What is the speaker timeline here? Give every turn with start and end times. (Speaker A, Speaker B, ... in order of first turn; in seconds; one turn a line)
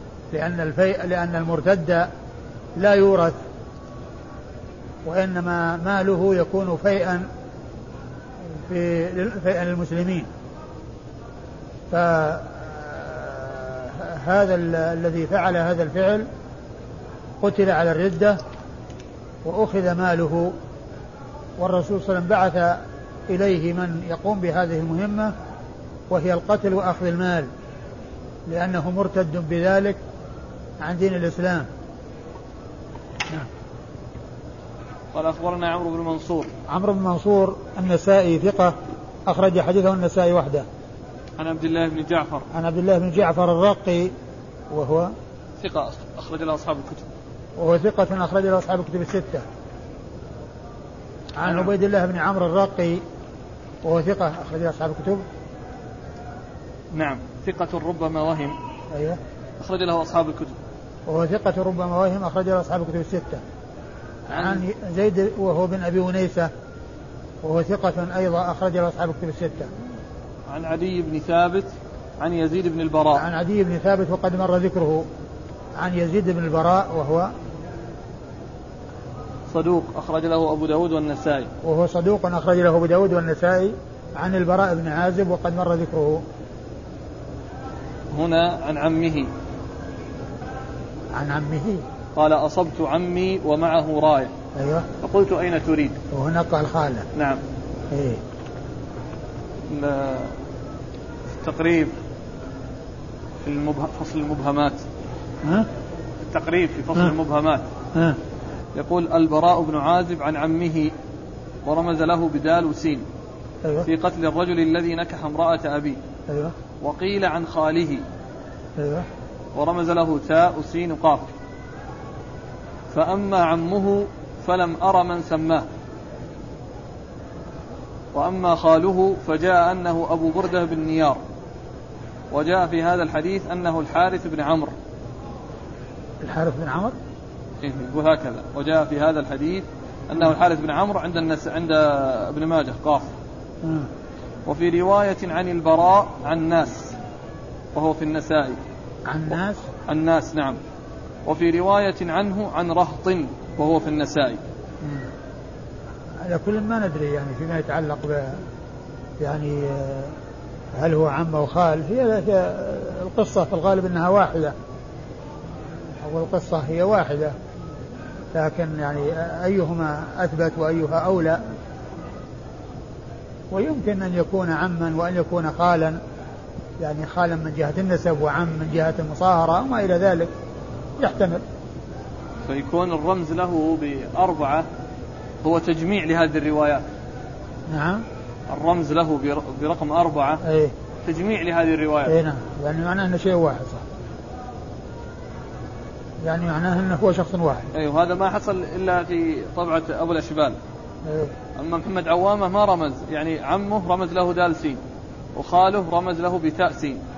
Speaker A: 0.3-2.1
Speaker A: 2.8-3.4
Speaker A: 5.0-7.2
Speaker A: 8.5-10.3
Speaker A: 11.9-16.3
Speaker A: 17.4-18.4
Speaker A: 19.4-20.5
Speaker A: 21.6-25.3
Speaker A: 26.1-27.5
Speaker A: 28.5-30.0
Speaker A: 30.8-31.7
Speaker B: 35.1-36.5
Speaker A: 36.7-38.7
Speaker A: 39.2-40.6
Speaker B: 41.4-42.5
Speaker A: 42.5-44.1
Speaker A: 44.7-45.1
Speaker B: 45.6-47.1
Speaker A: 47.6-49.4
Speaker A: 51.4-53.0
Speaker A: 53.8-55.2
Speaker B: 56.9-58.5
Speaker A: 58.9-59.2
Speaker B: 59.6-60.6
Speaker A: 61.1-63.4
Speaker A: 64.3-66.5
Speaker B: 64.3-64.6
Speaker A: 67.4-69.7
Speaker B: 70.5-73.2
Speaker A: 73.1-75.0
Speaker A: 75.8-77.3
Speaker B: 79.5-81.5
Speaker A: 81.6-86.2
Speaker B: 88.1-89.3
Speaker A: 91.1-91.8
Speaker B: 92.1-94.3
Speaker A: 94.5-94.8
Speaker B: 95.0-96.0
Speaker A: 96.1-97.1
Speaker B: 97.1-97.4
Speaker A: 97.9-98.2
Speaker B: 99.7-100.4
Speaker B: 101.3-101.9
Speaker B: 103.4-104.8
Speaker A: 105.4-105.7
Speaker B: 106.2-107.7
Speaker B: 108.7-110.9
Speaker B: 111.6-113.0
Speaker B: 113.8-116.0
Speaker A: 116.3-116.5
Speaker B: 116.8-118.0
Speaker A: 118.8-119.1
Speaker B: 119.5-121.3
Speaker B: 122.9-125.7
Speaker B: 128.1-131.2
Speaker B: 132.3-134.7
Speaker A: 136.2-136.9
Speaker B: 137.6-143.1
Speaker A: 143.6-143.9
Speaker B: 144.4-146.9
Speaker B: 147.7-148.6
Speaker A: 149.1-149.6
Speaker B: 149.8-150.6
Speaker B: 151.2-154.4
Speaker A: 154.8-155.1
Speaker A: 156.2-158.4
Speaker A: 159.2-160.2
Speaker A: 160.7-164.5
Speaker A: 166.0-167.3
Speaker A: 168.3-171.4
Speaker A: 173.5-176.0
Speaker A: 176.8-180.3
Speaker A: 181.0-181.4
Speaker B: 182.4-184.7
Speaker B: 185.4-186.8
Speaker A: 187.7-188.0
Speaker B: 188.5-190.4
Speaker A: 190.4-190.7
Speaker B: 191.0-192.2
Speaker A: 192.1-193.8
Speaker A: 196.2-197.7
Speaker B: 197.7-200.6
Speaker A: 201.0-201.3
Speaker B: 201.5-204.8
Speaker B: 205.3-207.0